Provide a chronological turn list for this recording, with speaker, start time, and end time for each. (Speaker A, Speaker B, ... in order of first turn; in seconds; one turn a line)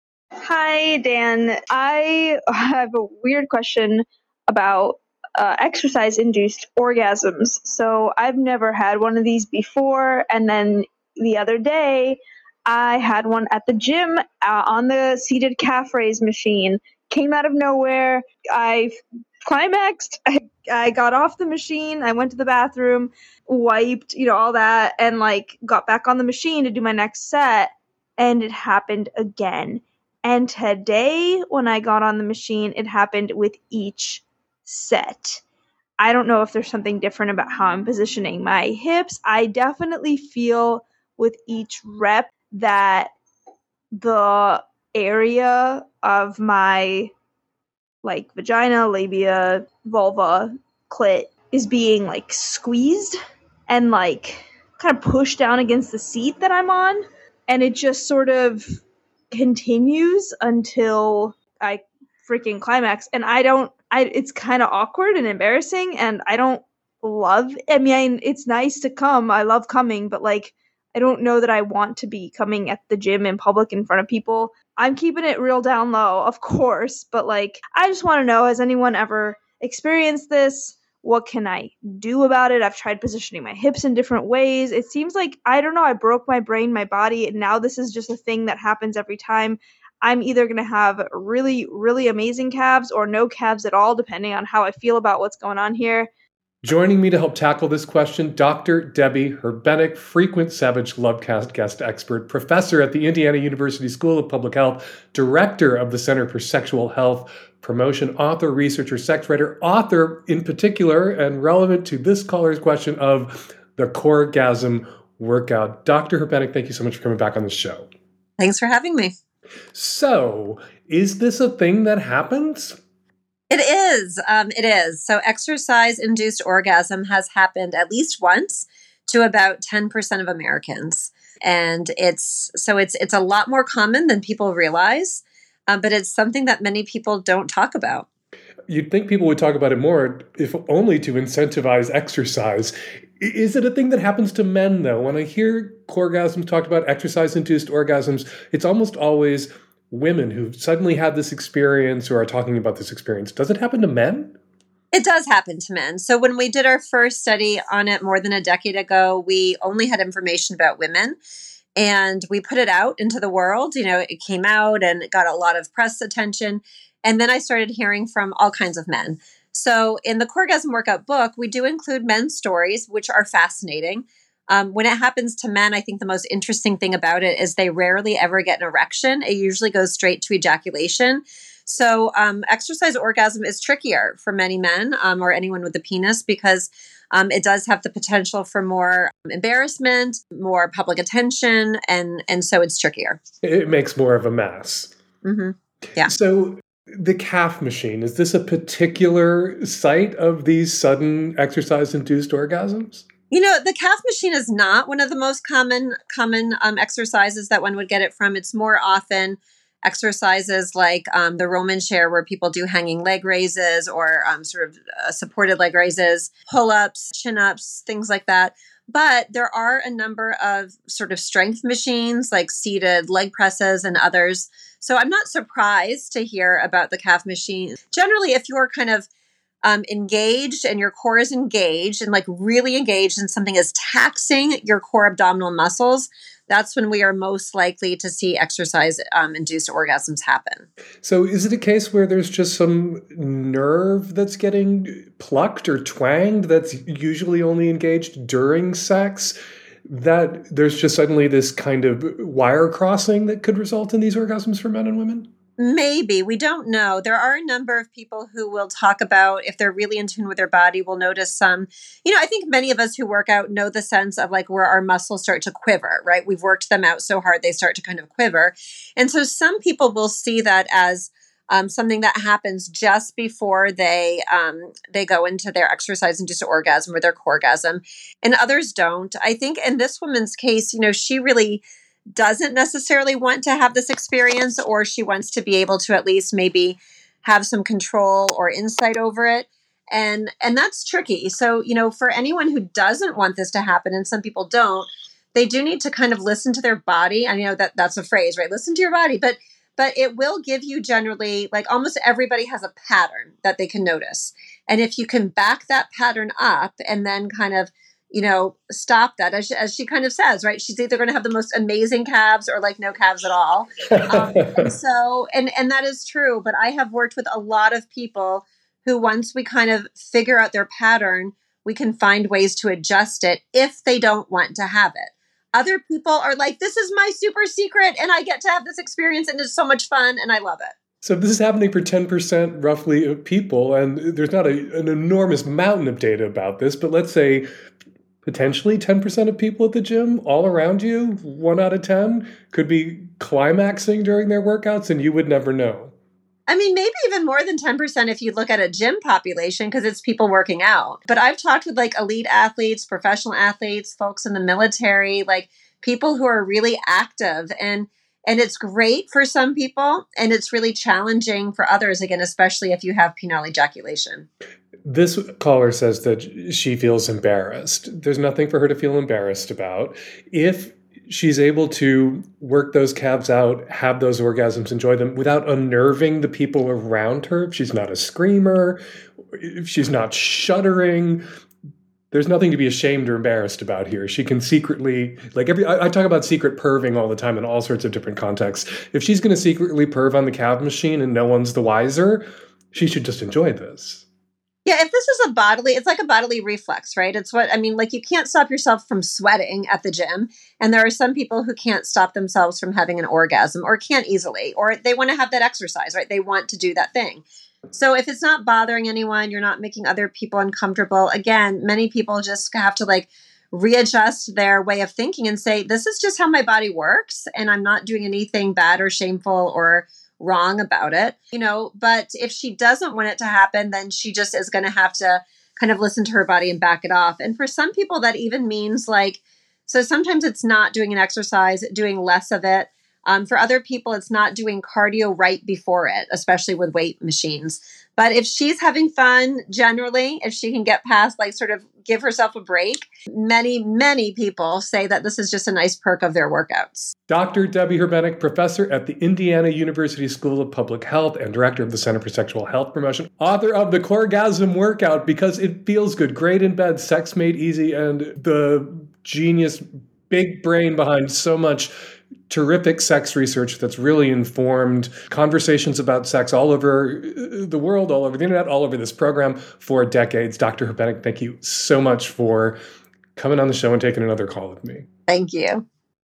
Speaker A: 0.4-35.4
Speaker A: 36.0-43.1
Speaker A: 43.9-47.1
Speaker A: 48.0-58.6
Speaker A: 59.3-96.1
Speaker B: 96.6-117.9
Speaker C: 118.4-119.1
Speaker B: 119.7-122.8
Speaker C: 123.5-138.1
Speaker B: 138.7-154.3
Speaker C: 154.9-161.2
Speaker C: 161.8-193.2
Speaker B: 193.4-194.9
Speaker C: 195.2-196.1
Speaker B: 196.1-203.0
Speaker C: 203.3-229.1
Speaker C: 229.6-240.7
Speaker B: 241.0-255.3
Speaker C: 255.6-281.6
Speaker C: 282.1-330.7
Speaker B: 313.9-314.7
Speaker B: 331.0-337.5
Speaker B: 338.2-345.9
Speaker C: 346.5-364.3
Speaker B: 364.9-378.8
Speaker B: 379.3-381.2
Speaker B: 382.1-394.0
Speaker C: 394.6-446.9
Speaker B: 447.1-461.7
Speaker B: 462.3-472.6
Speaker B: 473.1-474.9
Speaker C: 475.1-475.6